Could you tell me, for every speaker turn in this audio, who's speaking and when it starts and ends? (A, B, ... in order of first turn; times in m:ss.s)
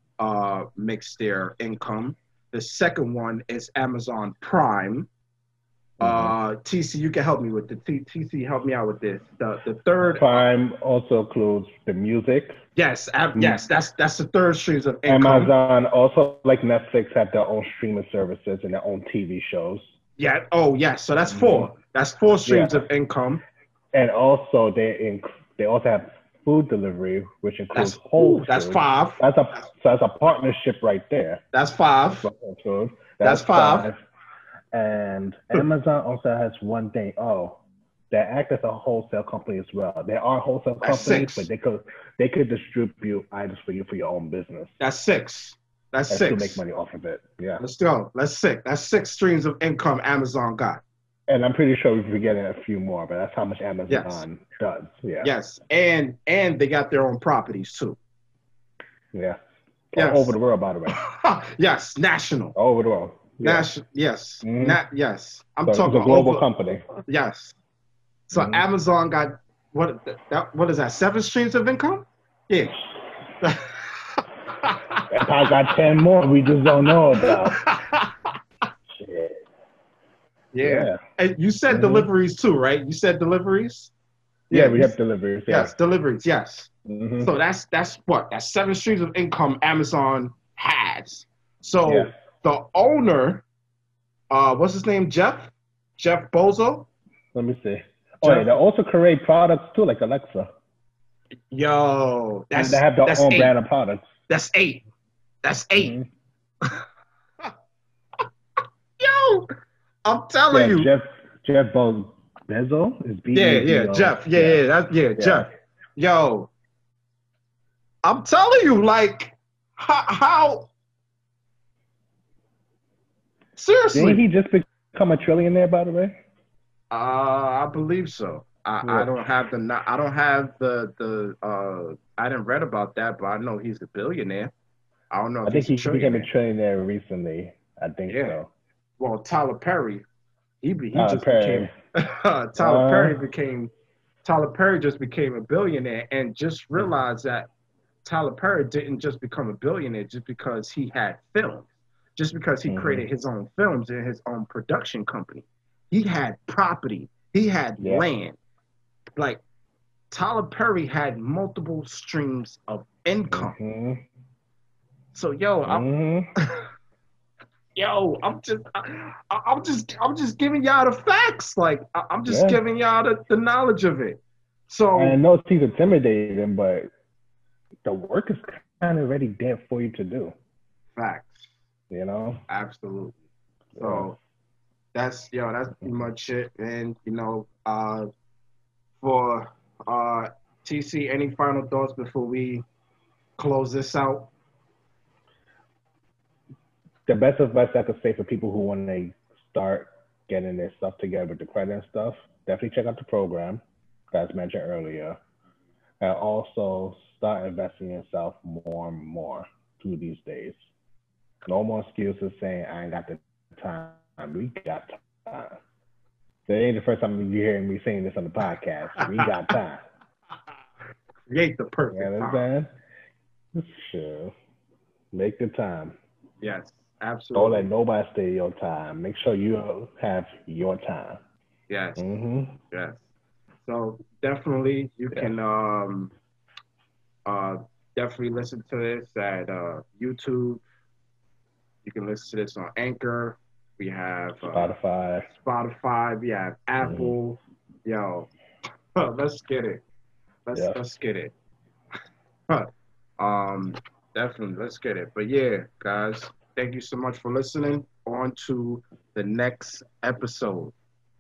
0:00.2-0:05.1 A
0:06.0-0:06.4 B
0:06.0-0:10.4 A
0:10.1-0:12.6 B
0:12.8-0:15.5 A
0:15.1-0:19.8 B
0:20.2-0:23.4 A
0:21.3-0:21.7 B
0:22.5-0:22.8 B
0:23.9-0:31.4 B
0:27.7-0:29.2 A
0:31.5-0:32.3 A
0:32.2-0:34.0 B
0:33.2-0:33.9 A
0:34.7-0:37.6 B
0:38.1-0:44.8 B
0:40.8-0:41.5 A
0:44.8-0:46.6 A
0:46.1-0:47.6 B
0:47.6-0:50.8 A
0:51.3-0:55.3 B
0:53.9-0:54.2 A
0:55.2-0:58.0 A
0:59.1-0:59.4 B
0:59.9-1:01.0 B
1:00.0-1:00.4 A
1:00.9-1:02.6 A
1:02.6-1:03.7 B
1:03.4-1:06.4 A
1:04.4-1:04.8 B
1:05.7-1:06.9 B
1:07.1-1:07.6 A
1:08.3-1:12.8 A
1:08.3-1:08.6 B
1:13.4-1:15.1 A
1:15.1-1:17.6 B
1:17.2-1:18.2 A
1:18.9-1:19.4 B
1:20.5-1:23.9 A
1:20.6-1:21.0 B
1:21.7-1:22.1 B
1:24.5-1:24.9 A
1:24.5-1:25.8 B
1:25.5-1:33.4 A
1:26.9-1:27.3 B
1:34.3-1:36.9 A
1:37.3-1:40.5 B
1:38.2-1:38.6 A
1:41.5-1:43.5 A
1:42.5-1:44.1 B
1:44.3-1:44.8 A
1:45.4-1:46.0 A
1:45.8-1:46.1 B
1:49.0-1:49.5 A
1:50.0-1:50.9 A
1:50.5-1:54.6 B
1:53.3-1:56.5 A
1:55.2-1:55.5 B
1:58.0-2:00.7 A
2:03.6-2:04.2 A
2:03.9-2:06.2 B
2:06.9-2:14.5 A
2:08.8-2:09.1 B
2:15.1-2:16.3 A
2:15.5-2:18.5 B
2:18.1-2:18.4 A
2:19.0-2:20.0 A
2:20.6-2:23.7 A
2:20.9-2:21.7 B
2:22.6-2:23.2 B
2:24.2-2:27.5 A
2:28.0-2:38.4 A
2:32.7-2:33.0 B
2:37.8-2:38.0 B
2:39.2-2:39.4 A
2:40.1-2:43.6 A
2:43.3-2:44.0 B
2:45.1-2:45.9 A
2:45.7-2:46.3 B
2:47.8-2:55.2 A
2:52.3-2:52.6 B
2:55.0-2:56.9 B
2:57.8-3:00.3 B
3:01.0-3:01.5 A
3:01.9-3:02.4 B
3:02.5-3:03.2 A
3:03.8-3:04.0 B
3:03.8-3:04.2 A
3:04.9-3:08.1 A
3:09.0-3:12.6 A
3:13.4-3:14.3 A
3:17.1-3:25.2 B
3:26.0-3:30.6 B
3:31.4-3:35.6 B
3:36.5-3:39.9 B
3:39.0-3:39.5 A
3:41.3-3:42.5 A
3:41.9-3:42.7 B
3:43.5-3:44.3 B
3:45.1-3:46.0 B
3:46.4-3:47.7 A
3:47.3-3:51.2 B
3:51.7-3:52.1 A
3:52.0-3:52.6 B
3:52.7-3:53.0 A
3:53.6-3:56.1 A
3:57.3-4:00.6 A
4:01.8-4:08.3 A
4:04.5-4:05.3 B
4:06.8-4:07.1 B
4:09.0-4:09.8 A
4:10.5-4:11.3 A
4:12.5-4:20.7 A